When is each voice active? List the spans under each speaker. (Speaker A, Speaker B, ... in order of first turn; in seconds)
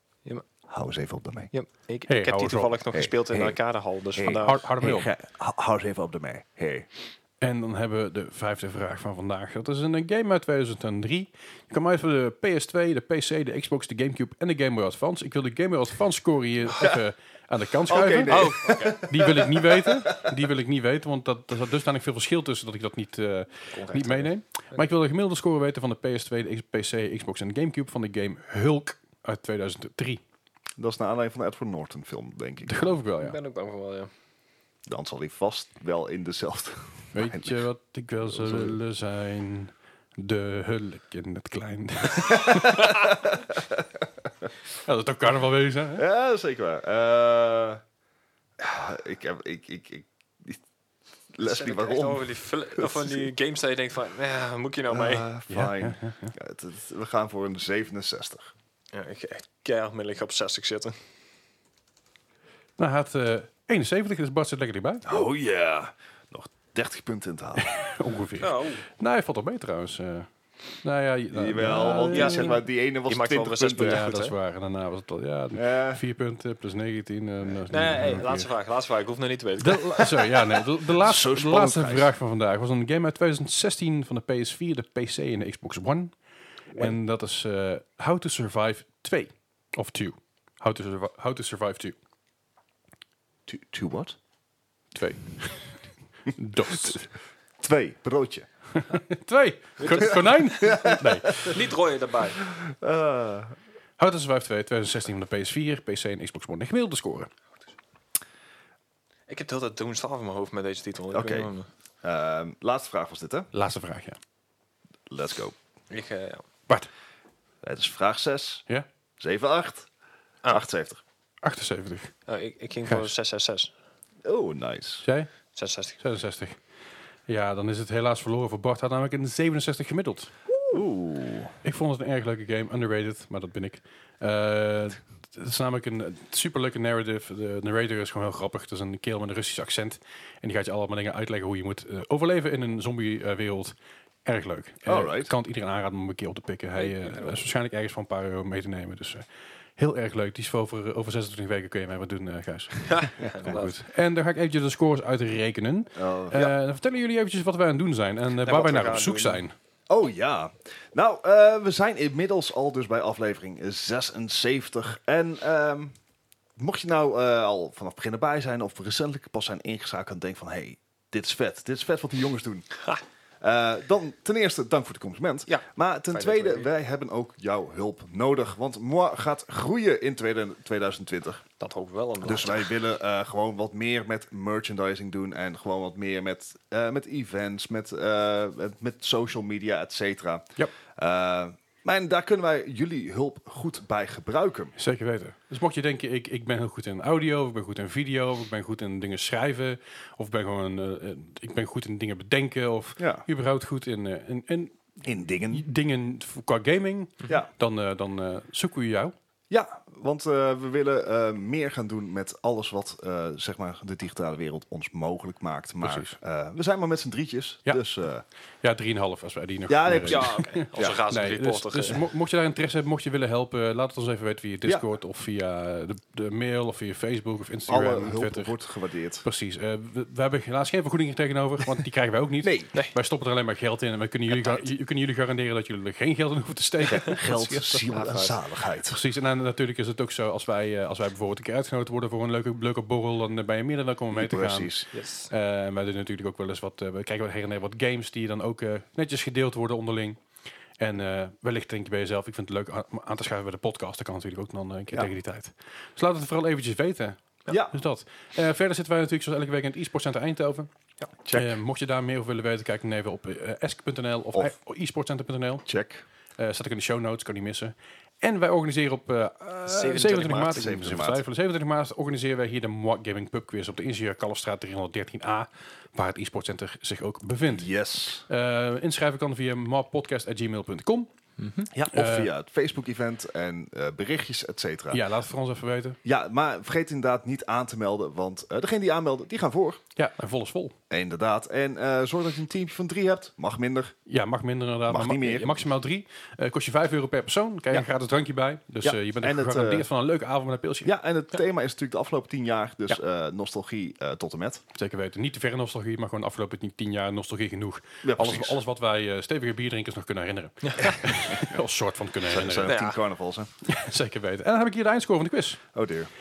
Speaker A: 0.7-1.5, 2.9-3.6, 4.2-6.9, 17.9-20.2, 30.8-32.9, 34.9-37.7, 38.2-38.8, 42.3-43.8, 45.9-47.8, 48.6-50.6, 51.3-53.2, 54.9-58.5, 65.0-67.9, 71.3-74.0, 75.5-76.0, 80.8-82.1, 93.5-94.2, 97.6-98.5, 100.3-101.5, 102.4-103.5, 111.1-111.5, 112.0-113.5, 115.1-115.5, 117.6-118.6, 119.2-119.9, 120.5-121.0, 124.2-125.0, 130.7-131.5, 144.8-145.3, 155.9-156.4, 159.9-165.9, 166.6-172.7, 173.4-181.4, 182.2-194.7, 203.0-203.2, 205.0-205.6, 209.5-218.2, 219.7-221.0, 227.7-229.2, 232.4-232.7, 236.9-239.0, 244.1-244.9, 257.5-257.7, 261.2-261.6, 265.6-266.0, 270.4-271.2, 277.5-278.3, 281.7-285.0, 286.0-289.8, 290.9-293.9, 294.9-295.6, 298.8-299.9, 300.8-304.6, 308.0-308.6, 312.3-313.5, 315.7-316.1
Speaker B: 1.5-4.7, 18.3-19.1, 23.7-24.8, 33.2-34.1, 51.4-55.3, 58.9-60.9, 68.4-68.8, 72.1-74.3, 77.7-80.2, 99.8-100.8, 101.4-102.4, 109.3-111.7, 115.9-116.4, 122.3-123.7, 125.5-126.0, 146.8-147.4, 152.8-153.7, 158.4-159.4, 175.5-176.7, 181.6-182.7, 220.1-222.0, 237.9-238.3, 244.9-245.3, 269.6-270.6, 281.4-281.7, 310.6-311.0, 312.6-313.0
Speaker C: 2.1-2.8, 4.4-5.1, 7.4-30.2, 32.6-33.4, 37.1-43.0, 44.8-46.0, 55.5-56.3, 62.8-65.0, 67.6-70.3, 70.8-72.5, 73.8-78.5, 79.6-86.2, 86.7-92.0, 94.9-95.7, 96.3-97.1, 98.8-101.7, 104.0-107.3, 113.5-114.2, 121.4-122.1, 125.0-125.3, 126.0-126.6, 127.3-130.3, 131.6-159.5, 194.8-204.8, 205.5-209.1, 215.8-216.2, 218.6-228.5, 229.2-237.9, 238.9-244.7, 245.3-250.2, 250.8-260.7, 261.3-265.6, 266.4-277.7, 278.3-281.1, 281.9-282.3, 284.9-286.0, 289.9-290.7, 294.1-300.9, 304.7-312.7, 313.6-315.6